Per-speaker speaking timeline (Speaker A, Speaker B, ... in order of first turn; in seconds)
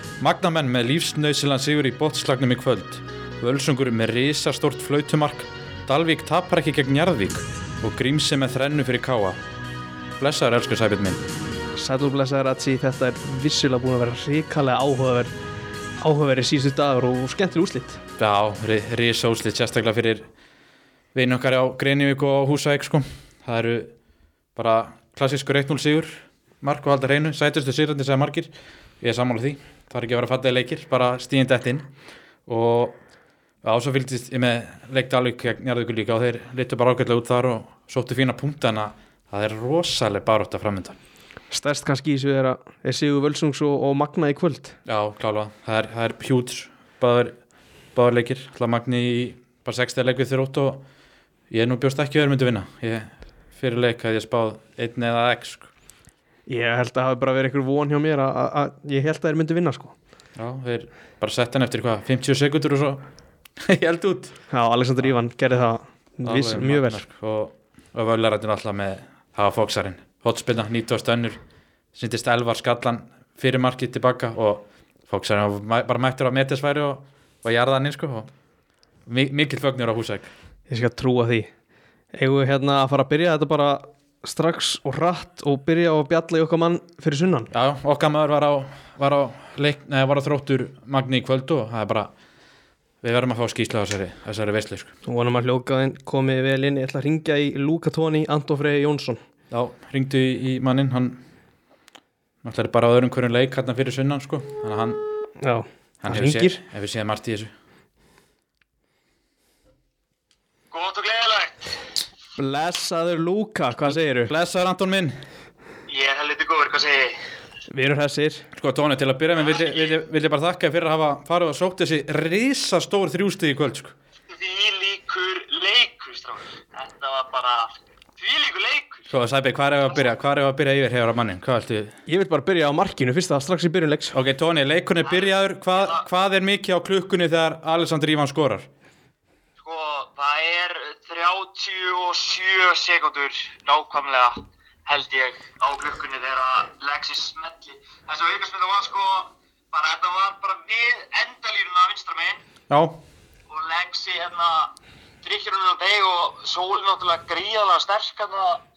Speaker A: 0.2-9.4, 10.2-11.2, 18.2-20.3, 21.1-23.9, 24.5-31.9, 32.5-33.0, 33.6-41.0, 44.9-47.4, 47.9-50.8, 51.5-55.7, 60.4-63.0, 63.6-64.3, 66.2-71.4, 71.9-78.3, 79.1-80.3, 87.5-92.1, 93.0-94.9, 99.5-101.2, 102.4-105.0, 106.0-107.5, 114.2-115.2, 118.5-123.9, 129.1-131.9, 134.1-138.7, 152.7-153.0
Speaker B: 11.8-15.3, 16.0-18.0, 41.5-44.7, 56.5-59.9, 64.5-67.0, 80.7-81.5, 82.1-87.5, 95.0-99.2, 105.4-106.6, 112.4-114.3, 117.7-118.5, 132.1-134.2
Speaker C: 110.7-111.7, 115.9-117.2, 119.4-120.0, 124.3-129.1, 135.1-136.0, 139.6-152.4, 153.5-158.6